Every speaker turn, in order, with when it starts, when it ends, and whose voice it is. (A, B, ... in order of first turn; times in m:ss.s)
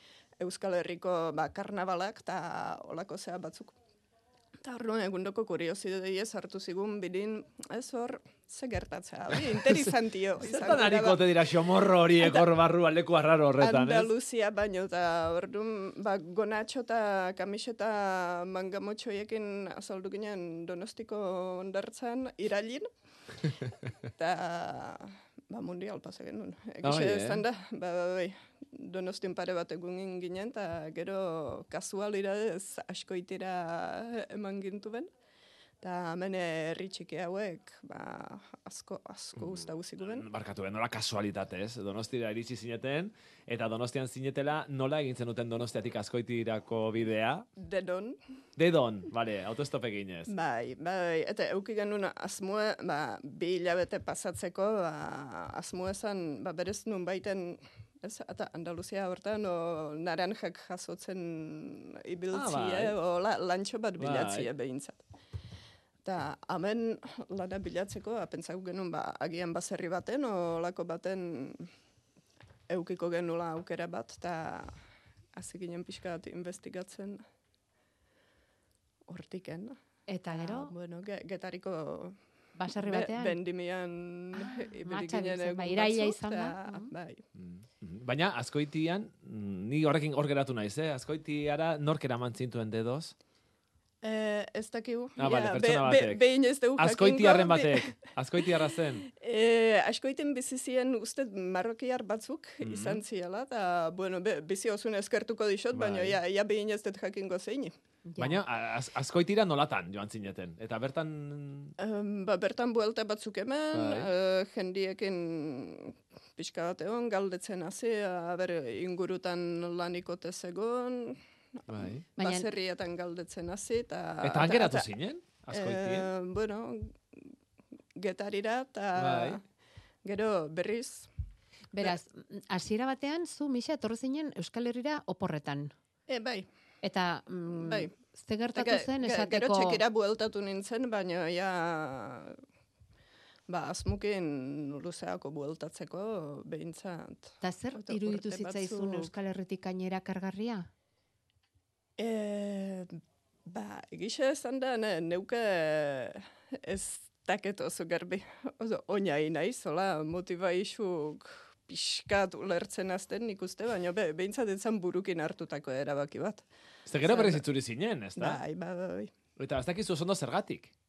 0:00.4-0:03.8 A
0:04.6-0:11.2 A
0:10.4-0:14.1 B
0:12.2-0:12.5 A
0:13.6-0:22.9 A
0:24.1-0:35.1 A
0:26.8-0:27.4 B
0:35.8-0:40.3 A
0:39.4-0:47.5 B
0:47.6-0:48.2 A
0:48.6-0:50.3 B
0:50.3-1:05.0 A
1:02.3-1:03.0 B
1:04.0-1:04.5 B
1:06.0-1:11.7 A
1:12.7-1:14.7 A
1:15.3-1:17.2 A
1:19.1-1:19.8 A
1:20.1-1:20.7 C
1:20.3-1:22.2 A
1:22.6-1:23.4 C
1:22.7-1:27.2 A
1:24.3-1:26.9 C
1:27.4-1:33.1 B
1:34.0-1:37.9 A
1:35.2-1:36.2 B
1:36.8-1:39.1 B
1:39.0-1:47.7 A
1:42.6-1:43.0 B
1:45.7-1:46.2 B
1:48.1-1:48.4 C
1:48.2-1:51.7 B
1:51.8-2:04.9 A
1:53.7-1:54.1 B
2:01.7-2:02.0 B
2:02.2-2:02.5 C
2:04.2-2:06.1 B
2:05.5-2:07.3 A
2:08.0-2:09.4 A
2:09.0-2:09.4 B
2:10.0-2:11.1 A
2:11.7-2:15.7 C
2:16.1-2:16.5 A
2:16.8-2:19.8 C
2:17.6-2:17.9 A
2:18.5-2:22.4 A
2:23.5-2:29.1 A
2:27.4-2:30.7 C
2:32.0-2:46.4 A
2:46.9-2:48.4 B
2:47.0-2:47.4 A
2:48.2-2:49.1 A
2:49.4-2:50.7 B